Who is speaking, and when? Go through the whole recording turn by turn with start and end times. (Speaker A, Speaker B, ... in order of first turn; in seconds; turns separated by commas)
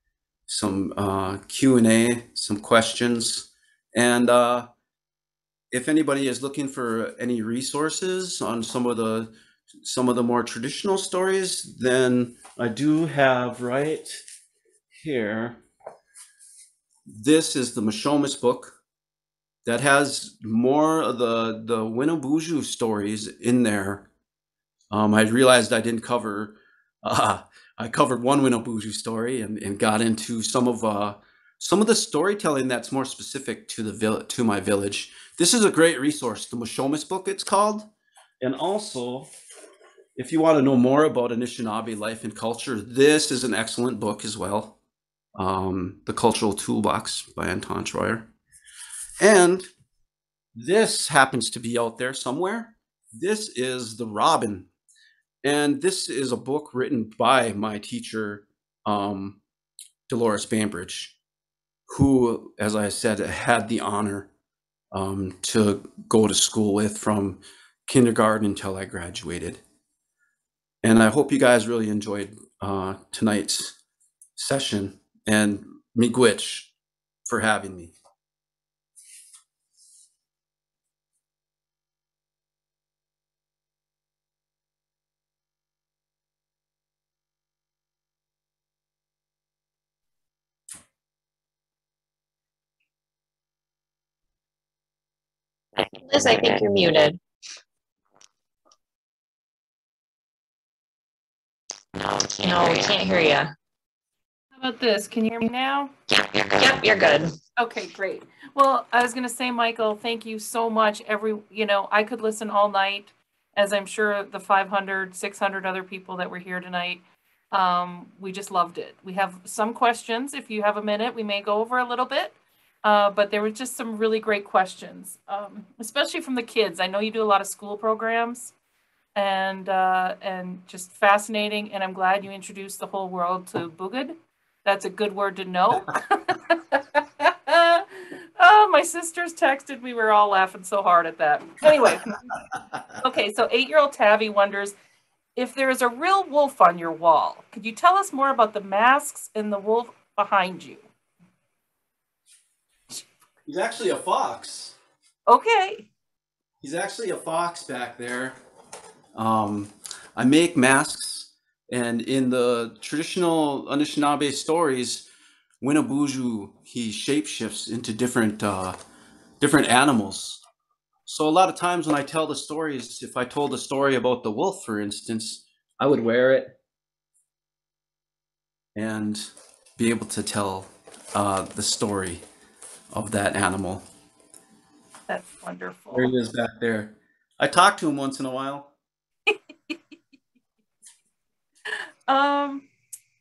Speaker A: 0.5-4.7, Speaker A: 5.7-14.2, Speaker A: 14.9-15.6, Speaker A: 17.1-18.8, Speaker A: 19.6-24.1, Speaker A: 24.9-37.9, Speaker A: 38.4-39.3, Speaker A: 40.2-44.8, Speaker A: 45.4-48.3, Speaker A: 49.2-49.7, Speaker A: 50.5-54.7, Speaker A: 55.4-59.4, Speaker A: 60.1-61.2, Speaker A: 61.9-64.3, Speaker A: 64.9-69.6, Speaker A: 70.8-73.8, Speaker A: 74.4-76.7, Speaker A: 77.3-77.9, Speaker B: 95.9-97.2, Speaker B: 102.1-103.5, Speaker C: 104.5-105.9, Speaker B: 106.1-107.4, Speaker C: 107.6-128.5, Speaker C: 129.2-142.1, Speaker C: 143.0-144.7, Speaker C: 145.4-150.9, Speaker A: 153.4-154.8, Speaker C: 155.3-155.9, Speaker A: 156.6-158.4, Speaker A: 159.2-165.1, Speaker A: 165.6-168.8, Speaker A: 169.4-170.4, Speaker A: 171.1-176.6, Speaker A: 178.8-182.2, Speaker A: 182.9-183.8, Speaker C: 185.1-186.2, Speaker A: 185.9-188.7, Speaker C: 189.3-189.8, Speaker C: 192.1-192.7